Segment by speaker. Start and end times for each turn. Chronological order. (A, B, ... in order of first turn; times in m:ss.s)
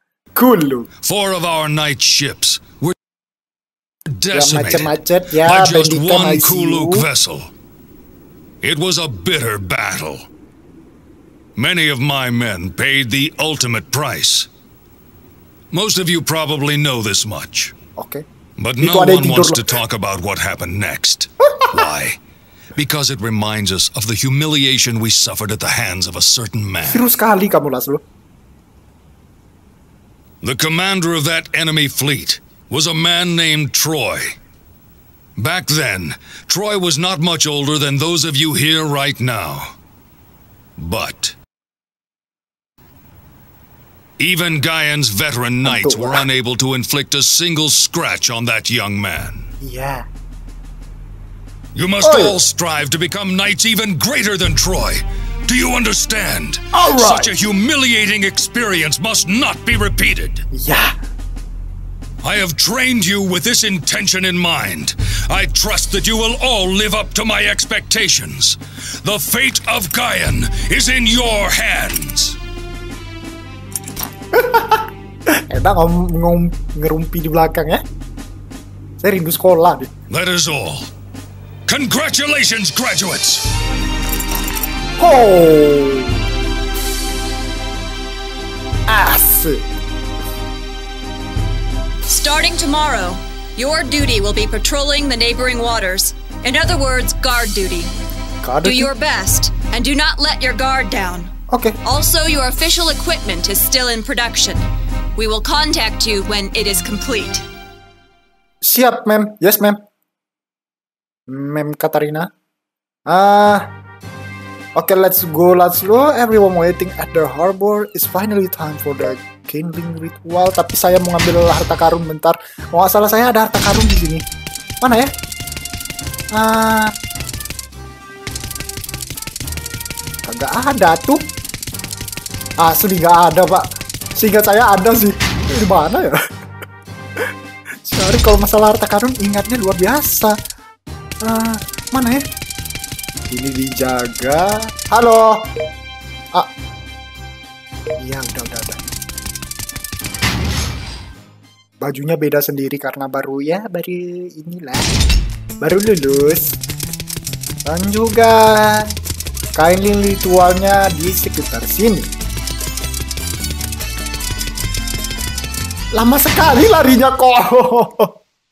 0:00.3-0:00.9 A
0:01.0-0:02.9 B
0:04.1-0:07.5 B
0:04.3-0:07.1 A
0:08.6-0:10.3 B
0:11.6-0:14.5 B
0:15.7-0:17.8 B
0:18.0-0:18.2 A
0:18.6-0:22.2 B
0:18.8-0:19.7 A
0:22.8-0:27.0 B
0:26.8-0:28.0 A
0:30.4-0:34.4 B
0:35.4-0:39.8 B
0:40.8-0:41.4 B
0:44.2-0:49.5 B
0:45.6-0:46.2 A
0:49.6-0:50.0 A
0:51.8-1:00.4 B
0:52.0-0:52.4 A
0:56.7-0:57.3 A
1:00.5-1:00.9 A
1:02.2-1:12.4 B
1:14.3-1:17.8 A
1:19.0-1:19.9 A
1:20.1-1:20.9 B
1:21.7-1:23.5 B
1:25.0-1:26.1 A
1:28.9-1:29.6 A
1:32.1-1:37.9 C
1:38.4-1:38.9 A
1:38.6-1:41.3 C
1:41.5-1:41.8 A
1:41.8-1:47.4 C
1:48.6-1:49.8 A
1:51.3-1:52.3 A
1:53.1-1:53.7 A
1:54.8-2:04.2 A
2:04.8-2:05.1 A
2:06.3-2:06.9 A
2:10.2-2:11.2 A
2:12.6-2:13.6 A
2:14.2-2:16.2 A
2:17.8-2:20.4 A
2:21.2-2:22.2 A
2:23.3-2:25.5 A
2:28.0-2:28.8 A
2:31.8-2:34.9 A
2:35.6-2:36.6 A
2:37.6-2:38.9 A
2:39.6-2:42.1 A
2:45.9-2:48.2 A